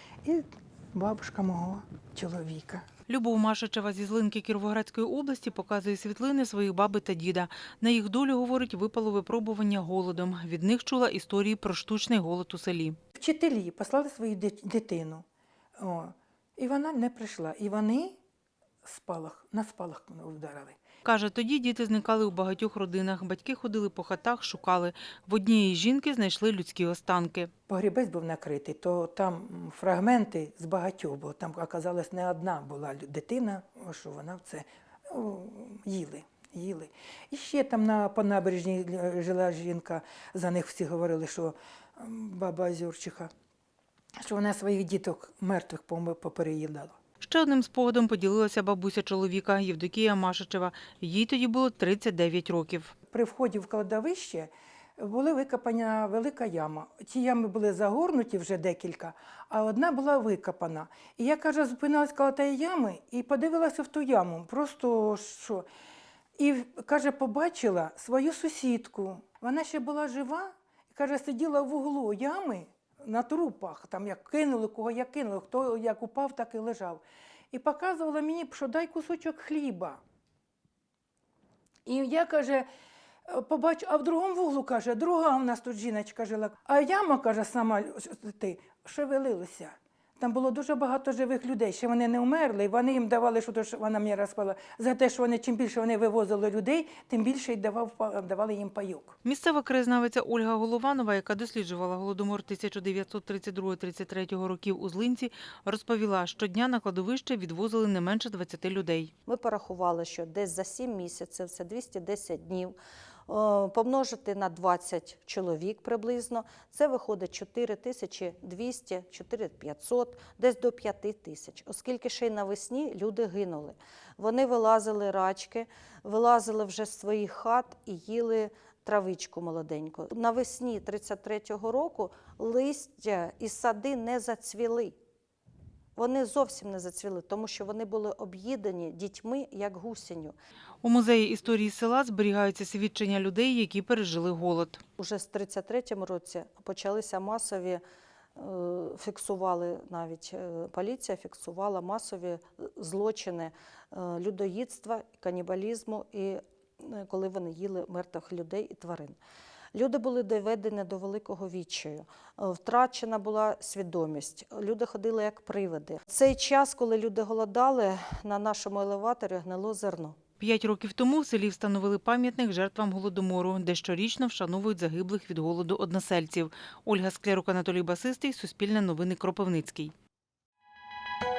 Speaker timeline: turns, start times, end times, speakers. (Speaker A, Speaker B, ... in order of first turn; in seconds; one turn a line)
Speaker A: 0.2-2.8
Speaker B: 3.1-13.0
Speaker A: 13.2-15.2
Speaker A: 15.8-18.2
Speaker A: 18.9-20.8
Speaker B: 21.1-27.5
Speaker A: 27.7-43.3
Speaker A: 44.2-47.0
Speaker B: 47.2-52.9
Speaker A: 53.1-65.7
Speaker A: 66.4-80.0
Speaker A: 81.9-82.7
Speaker A: 83.3-99.1
Speaker B: 99.2-109.1
Speaker C: 109.3-112.7
Speaker C: 113.3-134.9
Speaker C: 136.0-140.3
Speaker B: 140.8-144.8
Speaker C: 145.0-147.8
Speaker C: 148.4-159.2
Speaker C: 159.7-170.2
Speaker B: 170.4-179.9